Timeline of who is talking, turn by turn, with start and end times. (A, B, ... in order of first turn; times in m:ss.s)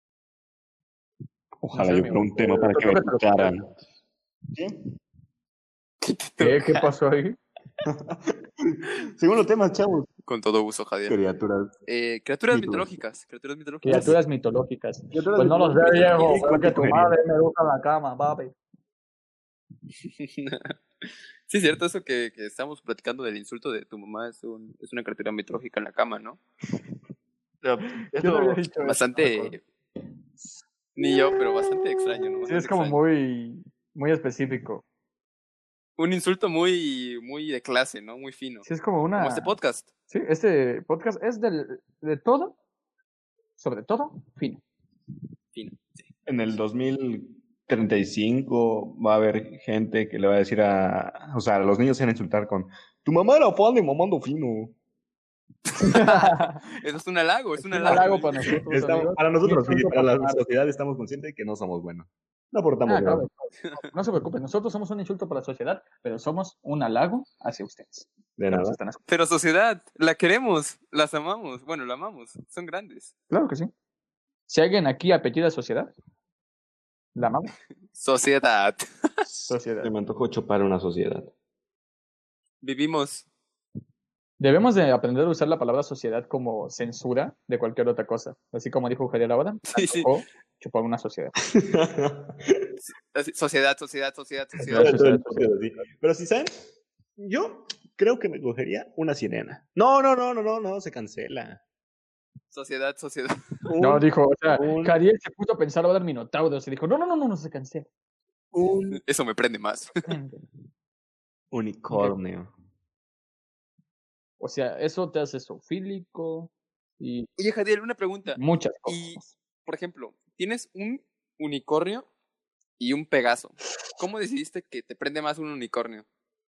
0:01.6-0:03.7 A
0:01.7-0:03.7 B
0:04.5-0:04.8 A
0:06.0-0:06.9 C
0:06.4-0:07.4 B
0:07.8-0:10.1 A
0:10.3-0:11.2 C
0:11.1-0:11.7 A
0:11.9-0:14.2 C
0:12.5-0:12.9 A
0:13.8-0:18.5 B
0:15.1-0:17.2 A
0:15.9-0:16.4 C
0:20.0-0:20.8 C
0:21.5-0:26.4 C
0:27.6-0:28.6 A
0:28.2-0:29.6 B
0:28.8-0:29.6 C
0:31.0-0:33.0 C
0:32.5-0:34.8 B
0:36.0-0:39.9 C
0:38.6-0:39.5 B
0:40.1-0:42.6 B
0:43.6-0:44.6 B
0:45.5-0:46.1 C
0:46.3-0:54.8 A
0:55.8-0:56.6 B
0:55.8-0:58.6 C
0:57.6-1:00.4 B
0:57.8-1:03.3 A
1:02.9-1:09.0 B
1:08.4-1:08.8 A
1:09.1-1:13.1 C
1:13.3-1:13.7 B
1:14.5-1:15.9 B
1:17.2-1:17.5 B
1:18.0-1:19.2 C
1:19.5-1:21.3 A
1:19.5-1:19.9 B
1:22.6-1:23.3 C
1:24.4-1:31.4 B
1:29.7-1:30.1 C
1:31.5-1:32.7 A
1:33.1-1:35.0 C
1:34.7-1:35.5 B
1:34.7-1:41.6 A
1:42.5-1:43.5 C
1:43.7-1:45.0 A
1:43.8-1:47.9 B
1:48.5-1:49.0 A
1:48.9-1:50.1 C
1:50.1-1:50.4 B
1:51.5-1:52.5 A
1:51.9-1:52.2 B
1:54.4-1:57.3 B
1:57.4-2:02.1 C
1:58.4-1:59.3 B
2:02.8-2:06.0 C